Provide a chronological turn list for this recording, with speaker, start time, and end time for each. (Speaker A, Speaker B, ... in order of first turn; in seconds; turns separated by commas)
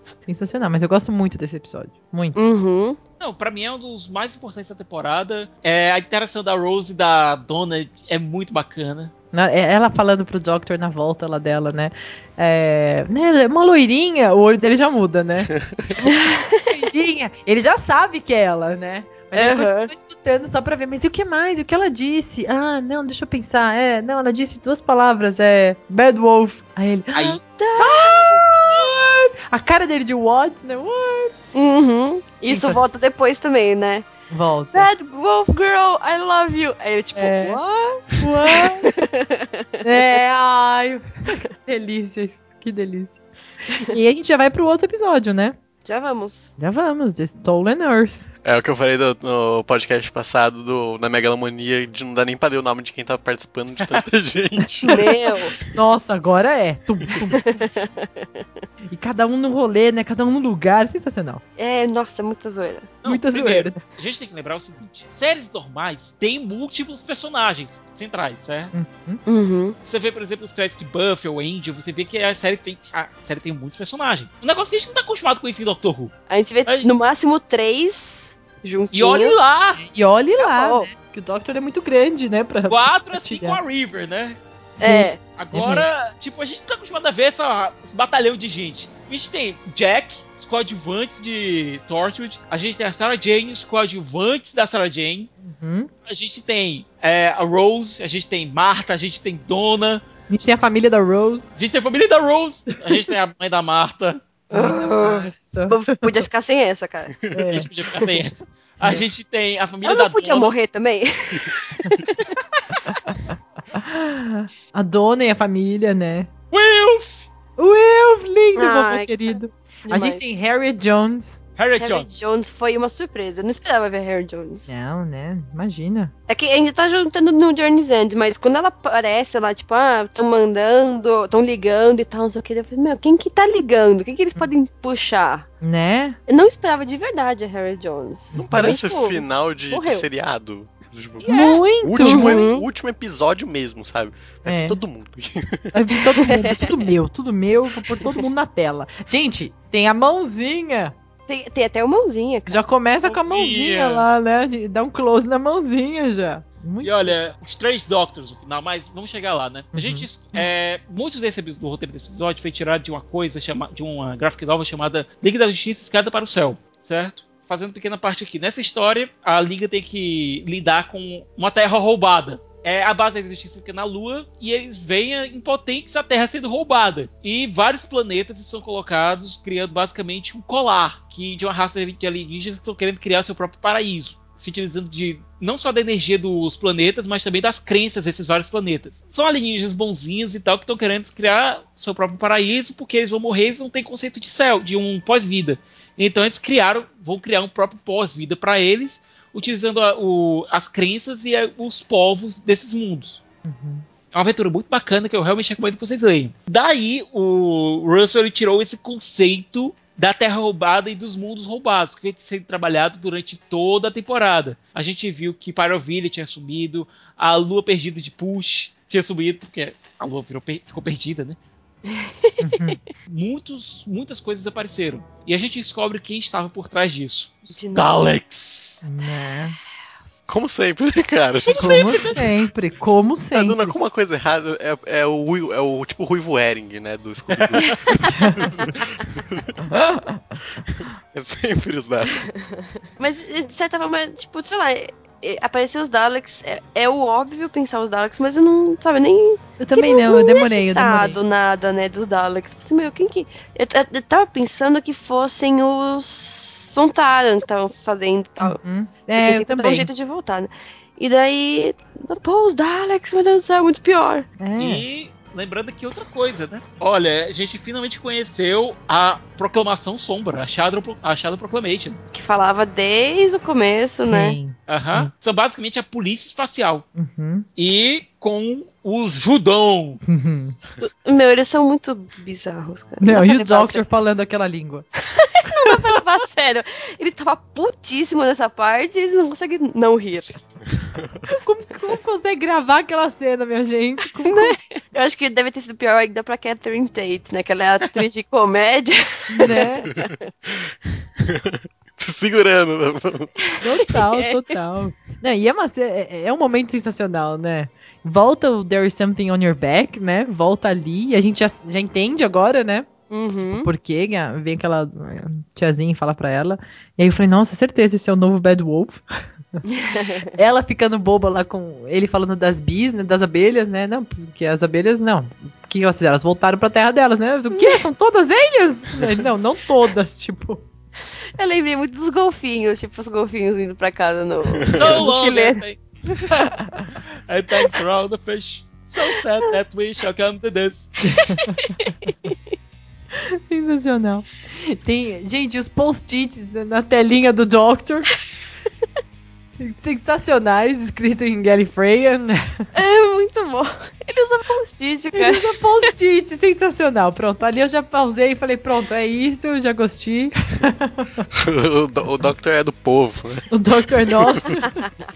Speaker A: 0.2-2.4, Speaker B: 2.4-3.0, Speaker C: 3.2-9.1, Speaker A: 9.3-15.5, Speaker D: 15.5-15.9, Speaker B: 16.0-16.7, Speaker A: 16.7-27.2, Speaker B: 19.4-19.9, Speaker B: 27.1-28.4, Speaker A: 27.8-31.3, Speaker B: 31.5-34.1, Speaker A: 32.5-32.8, Speaker A: 34.3-34.9, Speaker B: 34.7-39.7, Speaker A: 37.1-37.6, Speaker A: 38.2-38.9, Speaker A: 39.8-43.1, Speaker A: 43.7-45.6, Speaker B: 45.9-46.5, Speaker A: 46.6-48.2, Speaker D: 48.4-55.0, Speaker A: 54.8-55.1, Speaker B: 54.9-55.6, Speaker A: 55.7-57.5, Speaker B: 57.5-58.4, Speaker A: 58.9-61.4, Speaker B: 61.6-62.9, Speaker C: 63.0-68.7, Speaker A: 63.0-63.8, Speaker A: 68.7-69.2, Speaker B: 69.3-69.8, Speaker C: 69.8-76.1, Speaker B: 76.3-79.6, Speaker C: 76.7-76.9, Speaker C: 78.9-79.8, Speaker A: 79.8-83.6, Speaker B: 80.4-80.9, Speaker C: 82.7-84.4, Speaker A: 84.8-85.9, Speaker B: 84.8-85.2, Speaker C: 85.3-95.3, Speaker A: 95.4-95.9, Speaker C: 96.1-100.0, Speaker A: 100.3-101.5, Speaker C: 101.6-104.2, Speaker A: 104.5-106.2, Speaker B: 104.5-107.2, Speaker A: 107.3-107.7, Speaker C: 107.5-110.5, Speaker B: 109.8-112.4, Speaker A: 113.7-116.3, Speaker C: 116.5-117.3, Speaker A: 117.6-121.4, Speaker B: 118.6-119.2, Speaker B: 119.9-120.2, Speaker C: 121.6-122.2, Speaker B: 121.8-124.7, Speaker A: 124.7-126.1, Speaker B: 126.3-135.5, Speaker A: 135.6-136.2, Speaker B: 136.3-140.1, Speaker A: 138.3-138.8, Speaker D: 138.3-145.7, Speaker C: 141.2-141.6, Speaker A: 141.3-142.4, Speaker B: 142.0-142.7, Speaker A: 144.4-144.8, Speaker A: 145.7-150.9, Speaker B: 151.3-152.6, Speaker A: 152.5-157.2, Speaker C: 153.1-154.1, Speaker C: 156.8-203.2, Speaker A: 159.7-160.4, Speaker A: 203.4-203.9, Speaker C: 204.1-221.4, Speaker B: 221.9-222.3, Speaker A: 222.4-222.8, Speaker C: 223.1-228.8, Speaker B: 227.5-227.9, Speaker A: 228.8-229.6, Speaker D: 230.3-232.2, Speaker C: 231.5-232.3, Speaker A: 231.6-233.8, Speaker D: 233.3-239.6, Speaker C: 237.3-237.8, Speaker A: 238.1-238.4, Speaker D: 240.8-242.3, Speaker B: 243.0-258.6, Speaker A: 249.6-251.2, Speaker A: 258.4-259.9, Speaker B: 259.2-264.3, Speaker A: 264.4-264.8, Speaker C: 264.6-272.0, Speaker B: 272.1-274.4, Speaker A: 274.0-275.1, Speaker C: 274.7-276.9, Speaker A: 277.0-277.5, Speaker C: 277.6-280.0, Speaker A: 280.1-280.6, Speaker B: 280.8-283.9, Speaker A: 283.0-284.9, Speaker B: 285.1-290.4, Speaker A: 291.3-294.6, Speaker B: 294.2-300.2, Speaker A: 299.3-299.9, Speaker D: 301.2-303.3, Speaker B: 303.6-304.4, Speaker A: 303.6-312.9, Speaker B: 313.1-313.7, Speaker A: 313.5-319.0, Speaker B: 319.7-320.4, Speaker A: 320.4-330.6, Speaker B: 327.5-327.8, Speaker B: 331.4-335.6, Speaker D: 334.7-335.0, Speaker C: 334.7-336.4, Speaker C: 337.3-340.9, Speaker A: 341.0-341.8, Speaker A: 343.2-348.2, Speaker A: 349.6-352.7, Speaker B: 352.8-355.5, Speaker A: 355.1-361.3, Speaker D: 361.3-363.5, Speaker A: 363.5-364.9, Speaker D: 364.1-364.6